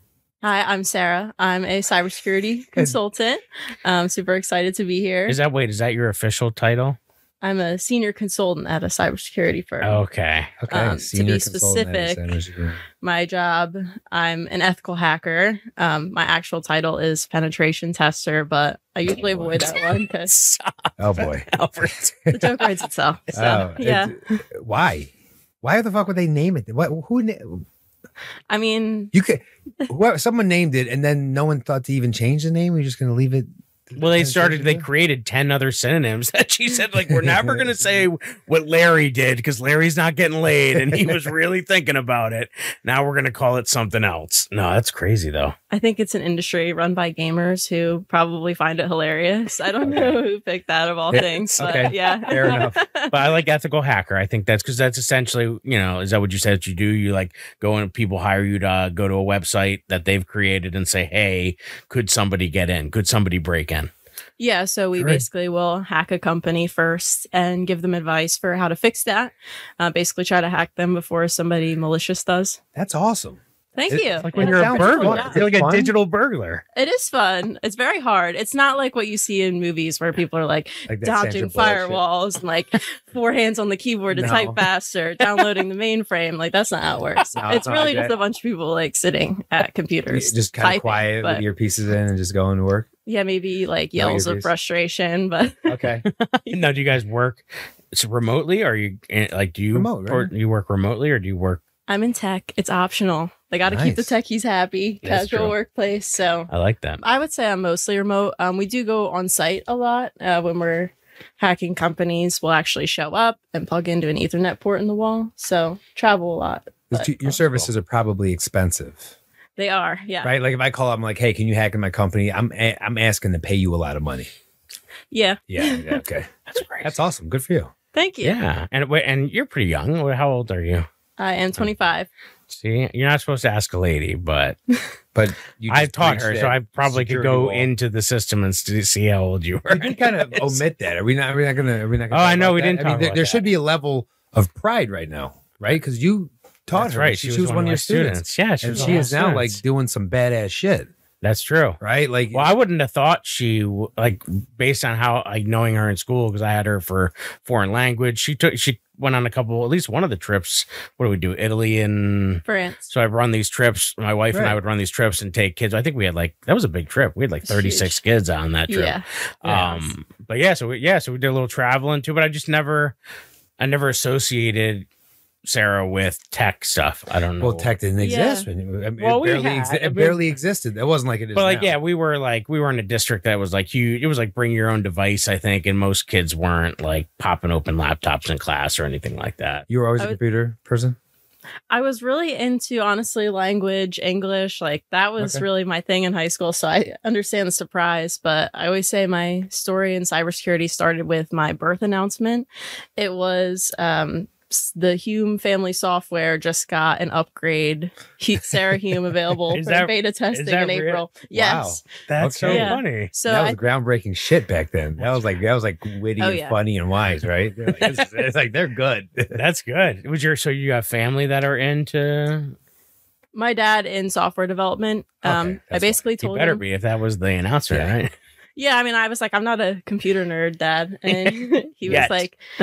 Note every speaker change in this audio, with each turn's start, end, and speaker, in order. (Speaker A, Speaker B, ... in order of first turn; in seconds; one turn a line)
Speaker A: 0.4-5.4
Speaker B: 5.3-7.0
Speaker A: 7.4-10.0
Speaker B: 9.8-10.5
Speaker C: 10.6-12.8
Speaker A: 10.7-12.2
Speaker A: 13.0-20.3
Speaker B: 19.6-22.3
Speaker C: 21.0-21.8
Speaker A: 22.3-24.4
Speaker C: 23.3-25.1
Speaker C: 25.6-27.6
Speaker A: 28.5-29.1
Speaker C: 29.1-34.8
Speaker B: 34.0-45.5
Speaker C: 37.0-37.7
Speaker C: 40.7-41.2
Speaker A: 45.7-53.1
Speaker C: 49.8-50.1
Speaker C: 51.1-52.8
Speaker B: 53.1-63.9
Speaker A: 64.4-72.6
Speaker C: 65.0-65.2
Speaker C: 72.7-75.9
Speaker A: 73.7-75.4
Speaker B: 74.2-76.6
Speaker A: 76.8-91.4
Speaker C: 80.9-82.0
Speaker C: 84.1-84.6
Speaker C: 87.3-88.1
Speaker C: 90.1-92.9
Speaker A: 93.0-95.7
Speaker C: 94.0-94.5
Speaker C: 95.7-96.0
Speaker B: 96.2-101.6
Speaker C: 99.7-100.3
Speaker A: 101.9-106.5
Speaker C: 103.7-104.1
Speaker B: 105.0-105.5
Speaker B: 106.5-107.0
Speaker A: 107.0-117.3
Speaker C: 116.9-119.1
Speaker A: 119.6-120.3
Speaker C: 120.2-124.3
Speaker A: 125.1-126.0
Speaker C: 125.5-126.3
Speaker B: 126.5-126.9
Speaker C: 126.8-127.7
Speaker A: 127.9-128.3
Speaker B: 128.2-130.8
Speaker A: 131.2-132.1
Speaker B: 132.5-134.6
Speaker C: 135.1-137.7
Speaker B: 135.7-140.6
Speaker C: 139.7-150.9
Speaker B: 142.1-143.5
Speaker B: 146.7-149.6
Speaker B: 151.2-151.8
Speaker C: 151.8-152.5
Speaker B: 152.3-172.9
Speaker A: 162.4-162.9
Speaker C: 164.3-164.6
Speaker A: 167.5-167.9
Speaker A: 168.7-169.0
Speaker C: 169.4-169.8
Speaker B: 173.6-174.8
Speaker B: 175.4-177.7
Speaker C: 177.4-181.7
Speaker A: 178.0-178.5
Speaker B: 179.0-180.2
Speaker B: 181.3-189.7
Speaker C: 189.7-191.0
Speaker A: 191.7-211.8
Speaker C: 195.2-195.4
Speaker B: 209.5-211.0
Speaker C: 211.3-219.4
Speaker B: 212.1-213.1
Speaker A: 212.4-213.6
Speaker A: 216.2-216.6
Speaker B: 219.3-222.5
Speaker A: 223.3-226.6
Speaker C: 225.2-226.0
Speaker B: 226.2-228.1
Speaker A: 228.6-232.4
Speaker B: 231.1-232.2